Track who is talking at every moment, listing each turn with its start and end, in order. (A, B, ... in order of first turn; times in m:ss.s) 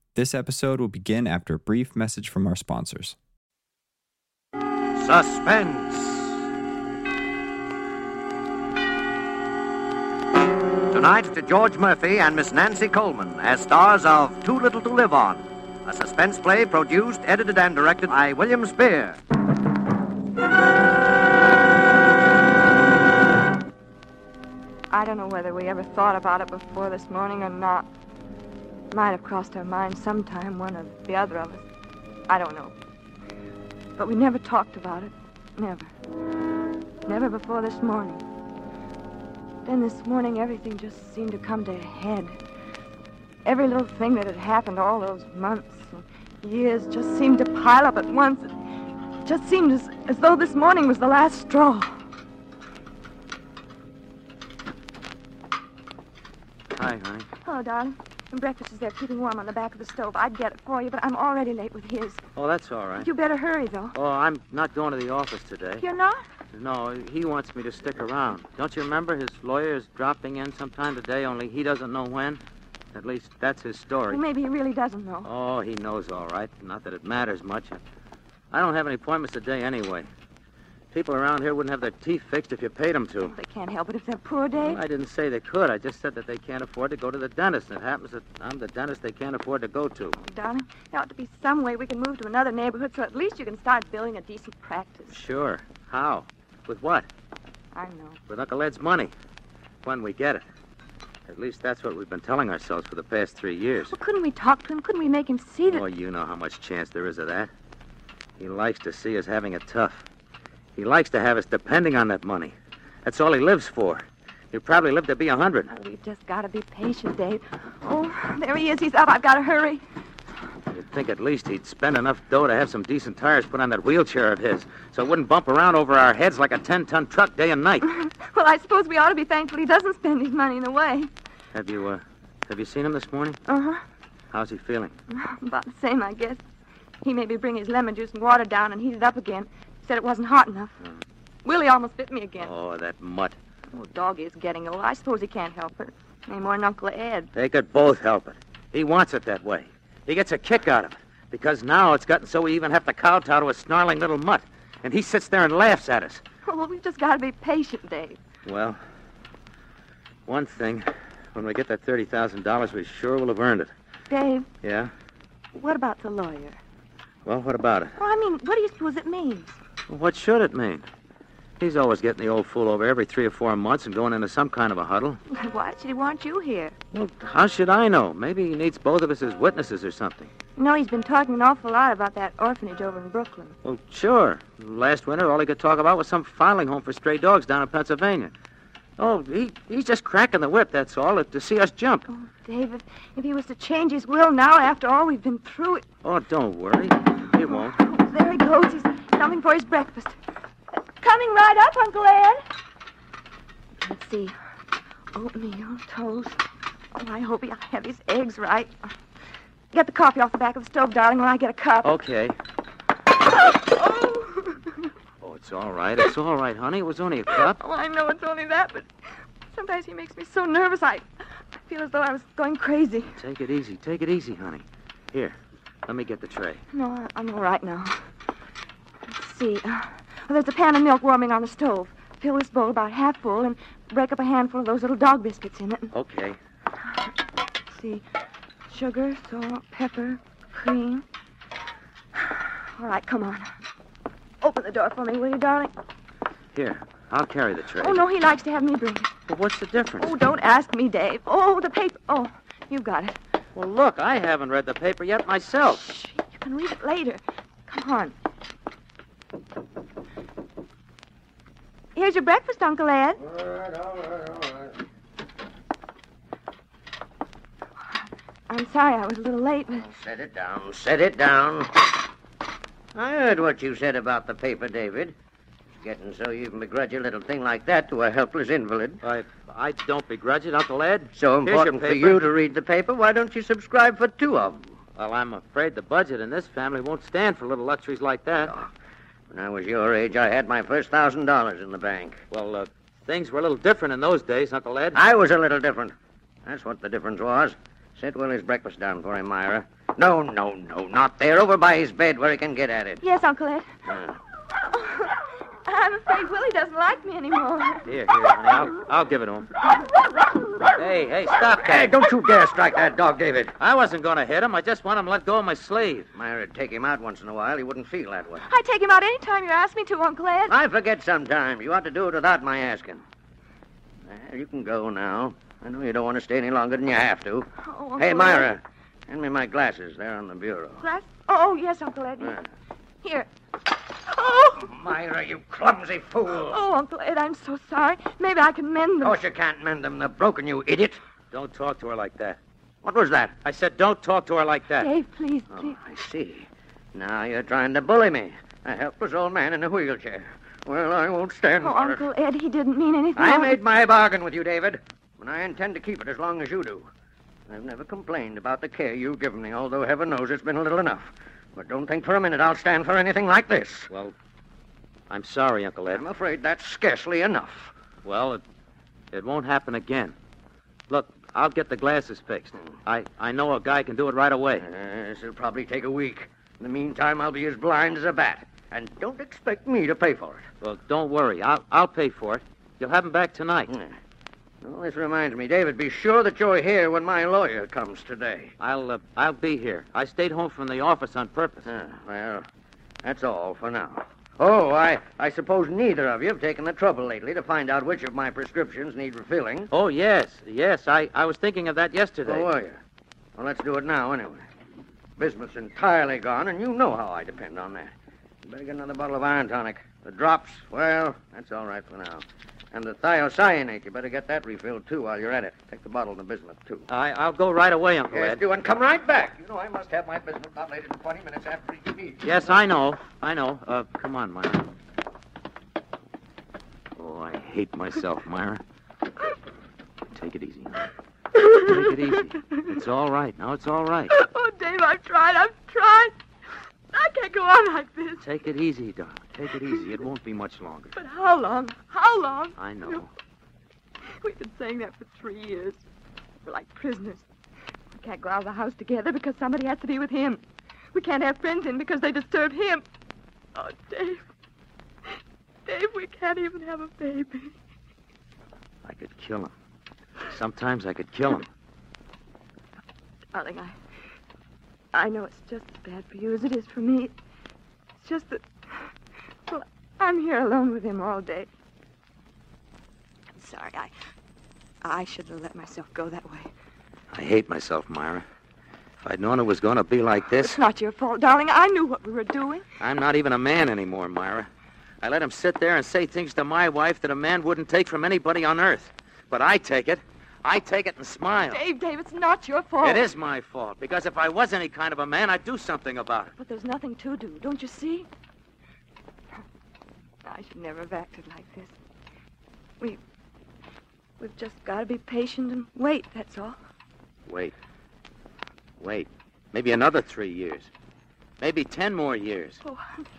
0:00.1-0:03.2 A
0:04.9-0:06.4 B
0:10.9-0:19.2 B
0:24.9-0:27.9 C
0:28.9-0:31.6 C
0:32.3-0:32.7 C
0:34.0-0:35.9 C
0:37.0-0:38.2 C
0:39.6-0:42.3 C
0:43.4-0:48.5 C
0:49.2-0:52.0 C
0:56.7-0:57.3 D
0:57.4-1:02.2 C
1:02.4-1:03.1 D
1:03.0-1:04.0 C
1:03.9-1:05.8 D
1:05.8-1:06.2 C
1:06.5-1:12.4 D
1:12.9-1:14.2 D
1:14.1-1:15.3 C
1:15.2-1:17.8 D
1:18.5-1:20.1 D
1:20.9-1:23.3 D
1:23.2-1:24.8 C
1:24.6-1:30.2 D
1:30.2-1:35.1 C
1:35.1-1:37.1 D
1:37.7-1:38.2 C
1:38.3-1:39.1 D
1:39.8-1:40.4 D
1:41.2-1:43.9 D
1:43.9-1:45.8 C
1:45.7-1:47.5 D
1:48.4-1:50.0 D
1:50.7-1:55.7 D
1:55.7-1:59.8 C
2:00.7-2:07.9 D
2:07.8-2:11.1 C
2:11.5-2:13.4 D
2:13.5-2:13.8 C
2:14.3-2:14.9 D
2:15.1-2:16.4 C
2:17.0-2:20.8 C
2:21.4-2:22.5 C
2:22.4-2:23.4 D
2:23.7-2:27.3 C
2:27.3-2:36.2 D
2:36.4-2:38.2 C
2:38.4-2:38.8 D
2:40.3-2:43.7 D
2:44.1-2:44.5 C
2:44.6-2:44.9 D
2:45.5-2:46.6 C
2:47.2-2:48.0 D
2:48.0-2:49.6 C
2:49.9-2:50.8 D
2:51.6-2:55.2 D
2:55.3-2:56.8 C
2:56.9-3:00.3 D
3:00.6-3:03.6 C
3:03.6-3:08.3 D
3:09.0-3:12.1 D
3:12.1-3:15.8 C
3:16.0-3:17.8 D
3:17.4-3:20.2 C
3:21.0-3:22.4 C
3:23.8-3:24.3 C
3:25.1-3:26.4 C
3:26.9-3:28.7 C
3:29.7-3:31.9 C
3:31.8-3:32.4 D
3:33.3-3:34.9 C
3:35.2-3:37.6 D
3:37.3-3:38.9 C
3:39.5-3:41.1 C
3:41.6-3:43.2 C
3:43.1-3:46.6 D
3:46.7-3:48.0 C
3:49.1-3:55.9 C
3:55.9-3:56.4 D
3:57.7-3:58.0 C
3:58.7-4:01.0 C
4:02.7-4:03.5 C
4:04.4-4:05.7 C
4:06.5-4:08.0 D
4:07.8-4:09.1 C
4:09.3-4:10.2 D
4:10.0-4:13.2 C
4:13.5-4:15.9 D
4:15.8-4:18.1 C
4:21.9-4:23.2 C
4:23.2-4:24.7 B
4:28.5-4:29.9 C
4:29.8-4:31.9 B
4:32.9-4:35.1 B
4:35.8-4:39.0 B
4:39.0-4:42.2 D
4:41.2-4:44.7 B
4:45.0-4:48.5 D
4:49.3-4:52.2 B
4:52.3-4:55.0 D
4:54.9-4:55.9 B
4:56.4-5:03.0 B
5:03.0-5:03.7 C
5:03.9-5:04.2 B
5:04.7-5:07.9 C
5:07.8-5:09.5 D
5:10.7-5:11.9 D
5:11.6-5:13.5 B
5:13.6-5:16.1 D
5:16.1-5:18.5 B
5:18.4-5:20.6 C
5:20.5-5:23.0 B
5:24.1-5:30.8 B
5:27.6-5:28.5 C
5:30.8-5:32.4 C
5:33.0-5:33.3 C
5:34.0-5:34.7 C
5:34.6-5:36.6 B
5:36.3-5:39.2 C
5:39.0-5:41.0 B
5:41.3-5:42.4 D
5:42.8-5:43.4 B
5:43.4-5:44.9 D
5:44.8-5:45.8 C
5:45.5-5:52.0 B
5:51.6-5:53.6 C
5:53.2-5:56.9 B
5:57.5-6:03.9 B
6:03.9-6:04.1 D
6:05.1-6:06.0 D
6:05.9-6:07.7 B
6:08.0-6:08.4 D
6:09.1-6:10.2 D
6:10.9-6:14.7 D
6:14.6-6:20.5 B
6:20.6-6:23.7 D
6:24.6-6:28.5 B
6:28.6-6:31.7 D
6:31.6-6:32.4 B
6:33.0-6:39.7 B
6:39.7-6:42.5 D
6:42.2-6:42.8 B
6:43.4-6:44.4 B
6:45.2-6:47.9 B
6:48.4-6:56.9 B
6:56.9-6:58.4 D
6:58.1-7:02.5 B
7:02.2-7:04.7 D
7:07.0-7:08.6 D
7:10.1-7:10.9 D
7:11.4-7:11.9 C
7:11.5-7:14.1 D
7:14.1-7:16.1 C
7:16.9-7:18.3 C
7:18.2-7:21.0 D
7:20.9-7:23.1 C
7:22.6-7:23.1 D
7:24.2-7:25.8 C
7:26.4-7:27.2 C
7:27.9-7:32.8 C
7:33.5-7:34.2 C
7:35.6-7:37.5 C
7:38.8-7:39.5 D
7:40.3-7:41.5 D
7:43.3-7:43.7 C
7:44.9-7:47.1 C
7:48.0-7:48.9 C
7:49.5-7:51.5 C
7:53.3-7:53.9 C
7:54.8-7:56.5 C
7:57.1-7:58.2 D
7:59.0-8:00.6 D
8:00.4-8:02.6 C
8:02.8-8:04.5 D
8:05.0-8:11.6 D
8:11.5-8:13.1 C
8:12.8-8:16.3 D
8:16.4-8:18.1 C
8:20.2-8:21.8 C
8:24.2-8:26.6 C
8:27.2-8:27.5 D
8:28.8-8:30.7 D
8:31.4-8:32.6 D
8:32.6-8:33.1 C